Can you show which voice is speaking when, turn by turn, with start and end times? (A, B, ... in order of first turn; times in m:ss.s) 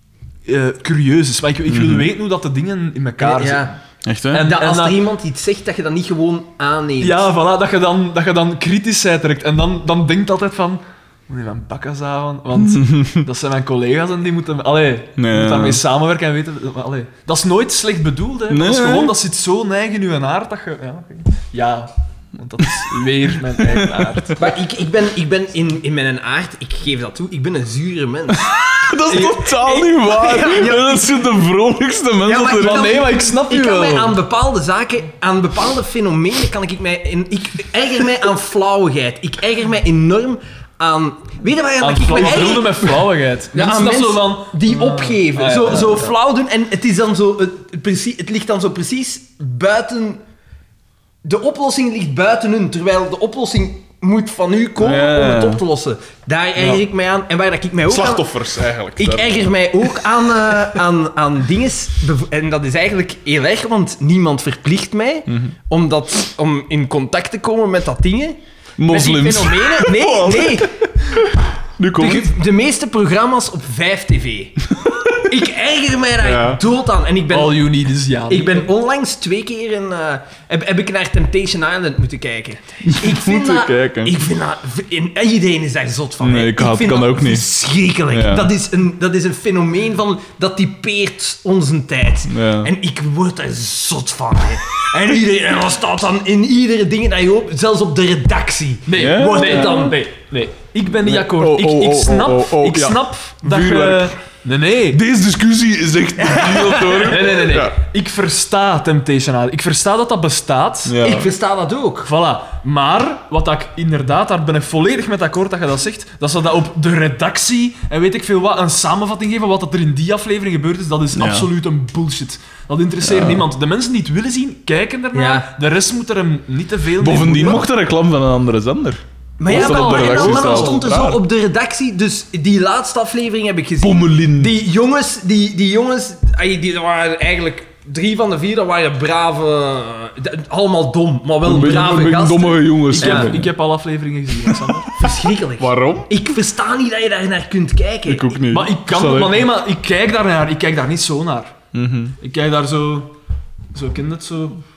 0:00.5-0:03.8 A
0:01.7-0:02.1 B
0:03.2-0:03.8 C
0:04.0-0:04.5 B
0:04.3-0:05.0 A
0:04.4-0:07.3 C
0:07.0-0:24.5 A
0:12.7-0:13.3 B
0:15.2-0:15.8 B
0:18.5-0:19.2 B
0:22.6-0:22.9 B
0:23.5-0:24.3 B
0:24.4-0:31.3 C
0:28.3-0:33.0 B
0:32.2-0:50.2 C
0:32.5-0:34.2 A
0:41.8-0:46.1 A
0:51.2-0:58.3 C
0:54.8-0:55.6 B
0:57.9-0:59.5 B
0:59.0-1:10.8 C
1:05.3-1:05.5 B
1:08.8-1:12.3 B
1:12.0-1:14.6 C
1:15.2-1:17.8 C
1:16.2-1:16.6 B
1:17.3-1:18.7 A
1:18.3-1:40.0 C
1:22.9-1:24.2 B
1:26.2-1:27.5 B
1:28.1-1:28.5 B
1:32.3-1:32.7 B
1:38.9-1:45.0 A
1:39.0-1:39.9 B
1:41.0-1:44.1 B
1:44.9-1:47.8 B
1:46.2-1:47.3 C
1:47.0-1:51.0 A
1:50.8-1:51.3 B
1:51.0-1:52.1 C
1:52.0-2:07.7 A
2:01.2-2:01.5 B
2:03.0-2:03.5 B
2:05.1-2:05.5 C
2:07.0-2:11.2 B
2:09.4-2:23.3 C
2:09.4-2:10.8 A
2:13.8-2:14.6 B
2:21.4-2:23.5 B
2:22.9-2:25.0 A
2:24.5-2:24.8 B
2:25.0-2:28.4 C
2:25.6-2:26.1 B
2:28.1-2:29.5 B
2:28.5-2:31.6 A
2:31.7-2:32.2 B
2:32.2-2:33.1 A
2:33.7-2:34.6 A